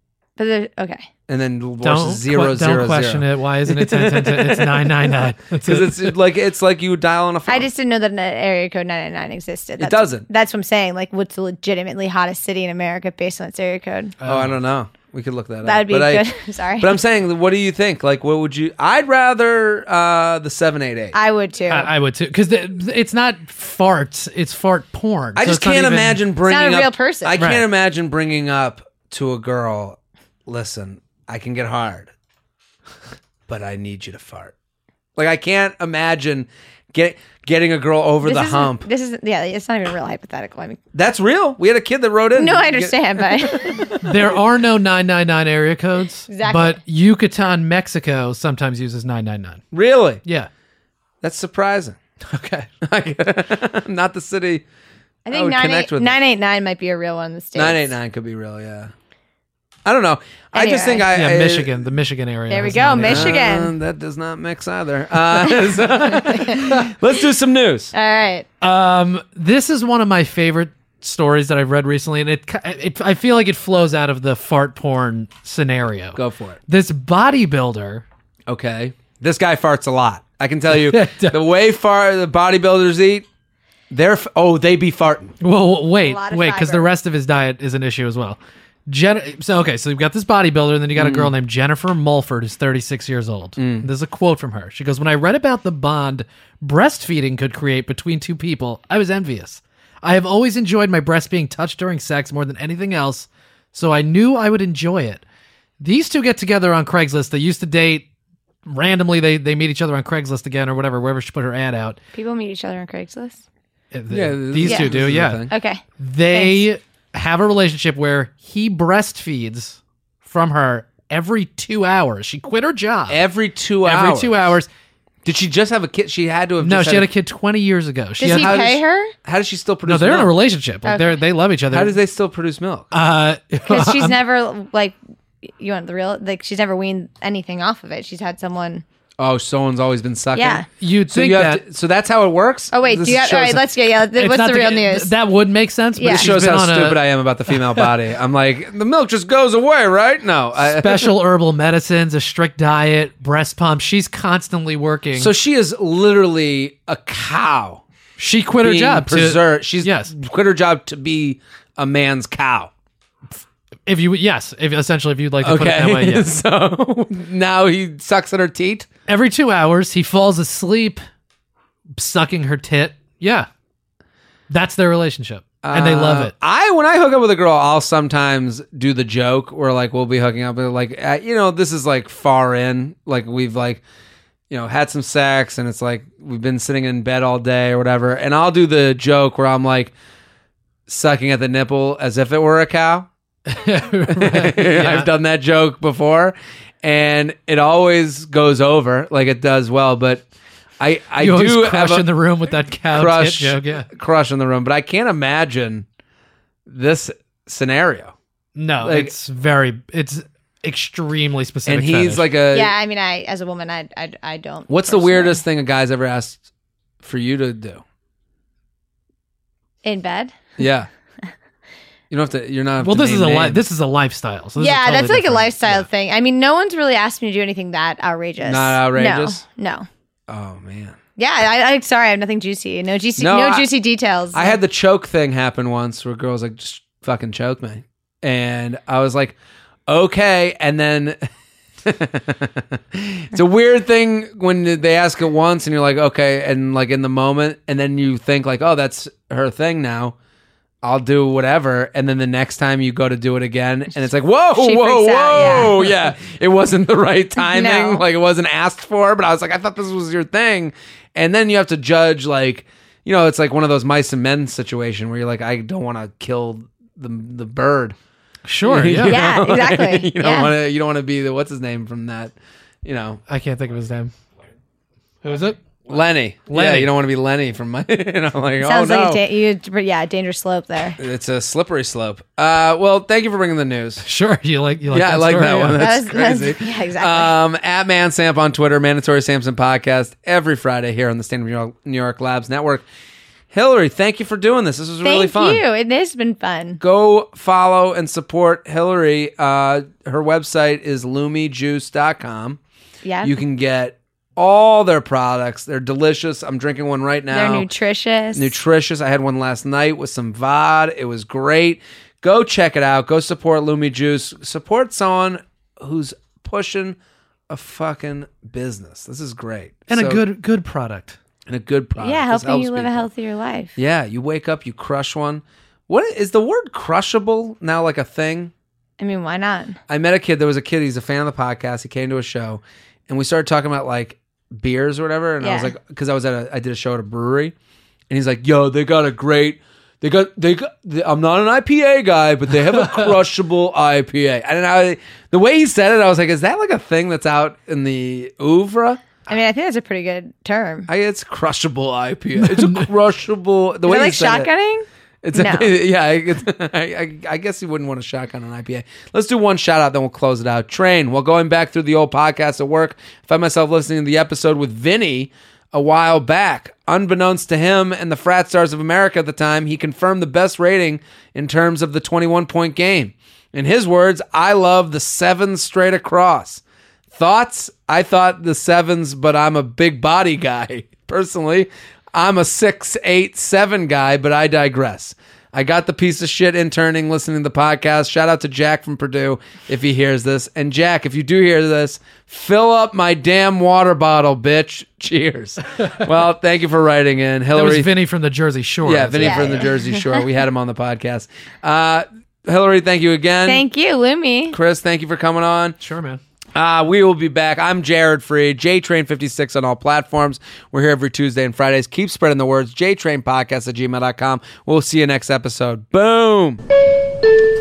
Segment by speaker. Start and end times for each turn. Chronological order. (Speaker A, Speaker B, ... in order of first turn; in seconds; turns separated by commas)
Speaker A: 0.4-1.1, Speaker B: 1.3-7.7, Speaker C: 1.8-6.1, Speaker A: 7.5-14.1, Speaker B: 9.8-10.3, Speaker C: 14.2-14.6, Speaker B: 14.2-21.2, Speaker A: 15.7-17.0, Speaker A: 21.1-21.9, Speaker C: 21.7-26.2, Speaker B: 25.4-32.1, Speaker A: 26.5-27.3, Speaker C: 27.4-27.6, Speaker B: 33.5-34.5, Speaker B: 35.2-38.9, Speaker A: 38.2-40.8, Speaker B: 40.9-44.0, Speaker A: 42.4-44.0, Speaker C: 44.0-49.6, Speaker A: 46.3-46.8, Speaker B: 49.7-50.2, Speaker B: 51.2-52.0, Speaker C: 52.3-52.7, Speaker B: 52.8-54.6, Speaker A: 55.3-57.9, Speaker B: 55.3-56.2, Speaker B: 57.6-58.9, Speaker B: 59.9-61.8, Speaker A: 60.5-61.1, Speaker C: 61.1-63.3, Speaker A: 62.5-63.7, Speaker B: 63.0-67.9, Speaker A: 65.4-66.7, Speaker A: 67.9-68.5, Speaker C: 68.6-78.0, Speaker B: 76.1-76.6, Speaker B: 78.5-83.3, Speaker C: 80.7-81.4, Speaker B: 83.9-85.3, Speaker C: 85.4-105.2, Speaker A: 86.0-86.9, Speaker B: 91.0-91.3, Speaker B: 93.6-93.9, Speaker C: 105.8-108.1, Speaker C: 108.7-112.0, Speaker A: 112.2-113.4, Speaker C: 113.9-123.2, Speaker B: 114.1-115.5, Speaker A: 114.7-114.9, Speaker A: 115.5-115.8, Speaker A: 116.3-116.6, Speaker B: 123.1-124.4, Speaker C: 123.8-124.7, Speaker B: 125.2-127.1, Speaker C: 126.6-128.6, Speaker A: 128.2-129.1, Speaker B: 128.2-130.3, Speaker C: 129.9-132.0, Speaker A: 130.8-131.2, Speaker B: 131.7-132.9, Speaker C: 132.9-134.2, Speaker A: 133.7-135.0, Speaker A: 135.5-138.8, Speaker B: 139.2-143.7, Speaker A: 140.4-140.7, Speaker C: 140.8-141.6, Speaker A: 142.7-145.1, Speaker C: 144.2-147.1, Speaker A: 146.0-146.3, Speaker B: 146.0-151.2, Speaker C: 150.7-155.3, Speaker B: 155.2-157.8, Speaker C: 158.2-160.1, Speaker B: 158.6-162.7, Speaker C: 163.9-166.3, Speaker B: 165.4-168.9, Speaker C: 169.1-171.0, Speaker C: 172.0-173.5, Speaker C: 174.5-176.3, Speaker B: 175.6-183.8, Speaker B: 184.5-189.9, Speaker B: 190.9-193.1, Speaker C: 193.5-195.1, Speaker B: 194.1-200.3, Speaker B: 200.8-202.1, Speaker C: 201.2-203.9, Speaker B: 202.9-205.9, Speaker B: 206.7-208.1, Speaker C: 208.6-212.3, Speaker B: 208.8-209.1, Speaker B: 211.7-212.7, Speaker A: 212.5-215.4, Speaker B: 214.7-216.4, Speaker B: 217.0-217.8, Speaker A: 219.8-220.3, Speaker B: 220.6-220.9, Speaker B: 222.1-223.6, Speaker C: 222.8-225.9, Speaker A: 224.6-229.9, Speaker B: 228.4-229.4, Speaker B: 230.3-231.0, Speaker A: 231.2-234.6, Speaker B: 233.2-233.7, Speaker B: 234.3-239.3, Speaker B: 239.9-241.3, Speaker B: 241.8-250.2, Speaker B: 250.8-268.0, Speaker A: 254.6-255.7, Speaker A: 257.4-258.0, Speaker C: 268.5-269.2, Speaker B: 268.7-272.3, Speaker A: 269.1-270.5, Speaker B: 272.9-273.2, Speaker C: 273.3-274.1, Speaker C: 275.2-275.8, Speaker B: 275.9-279.2, Speaker C: 276.5-276.9, Speaker A: 278.6-281.0, Speaker B: 281.0-284.1, Speaker C: 284.0-285.9, Speaker B: 284.9-292.9, Speaker A: 285.8-287.3, Speaker B: 293.5-295.6, Speaker A: 295.0-296.8, Speaker B: 296.8-302.6, Speaker A: 303.1-303.3, Speaker B: 303.2-307.7, Speaker A: 307.3-308.5, Speaker B: 308.3-317.0, Speaker B: 317.5-320.2, Speaker C: 319.9-321.2, Speaker B: 321.5-323.1, Speaker A: 322.0-323.8, Speaker B: 323.8-328.5, Speaker A: 329.0-329.8, Speaker B: 329.9-337.6, Speaker A: 335.4-335.7, Speaker B: 338.1-349.0, Speaker A: 349.3-350.9, Speaker B: 350.9-354.5, Speaker C: 352.4-352.9, Speaker A: 353.9-355.7, Speaker B: 355.2-376.6, Speaker B: 377.1-397.9, Speaker C: 397.5-399.6, Speaker B: 398.9-403.6, Speaker A: 399.2-400.2, Speaker A: 403.4-404.6, Speaker B: 404.5-405.8, Speaker C: 405.8-406.2, Speaker B: 406.6-416.6